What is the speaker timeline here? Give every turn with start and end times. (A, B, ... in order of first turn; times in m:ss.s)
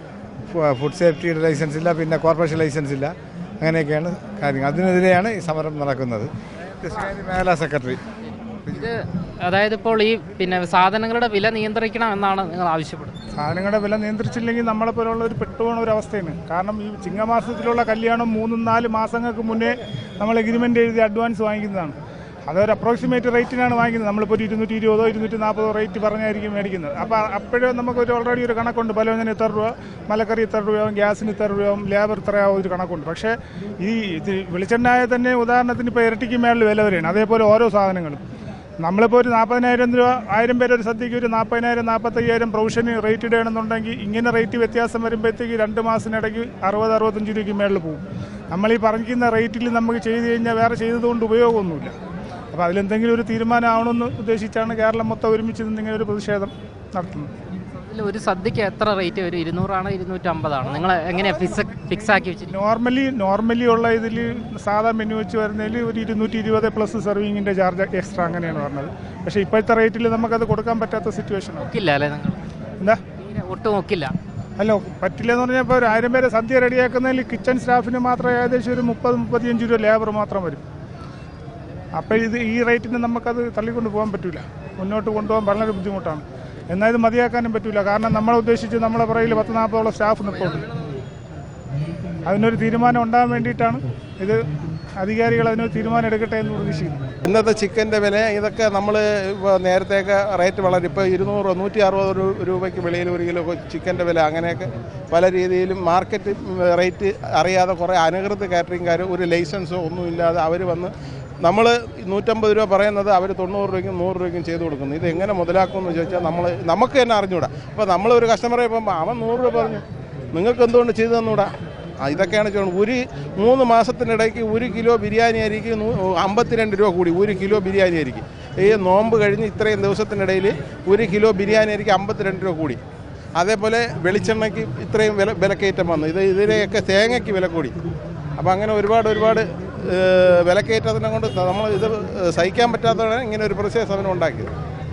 0:00.5-0:08.0 A
0:08.3-0:13.2 B
0:13.3-0:22.0 C
0:22.5-0:38.2 C
0:38.8-0:51.9 C
0:52.5-0:57.3 C
0:57.8-1:02.5 B
1:02.5-1:11.7 C
1:11.6-1:12.4 B
1:13.2-1:14.1 B
1:14.6-1:20.6 C
1:21.9-1:30.7 C
1:32.2-1:34.5 C
1:35.0-1:37.0 C
1:37.2-2:01.5 D
2:02.0-2:12.8 D
2:13.4-2:17.8 D
2:18.4-2:24.5 D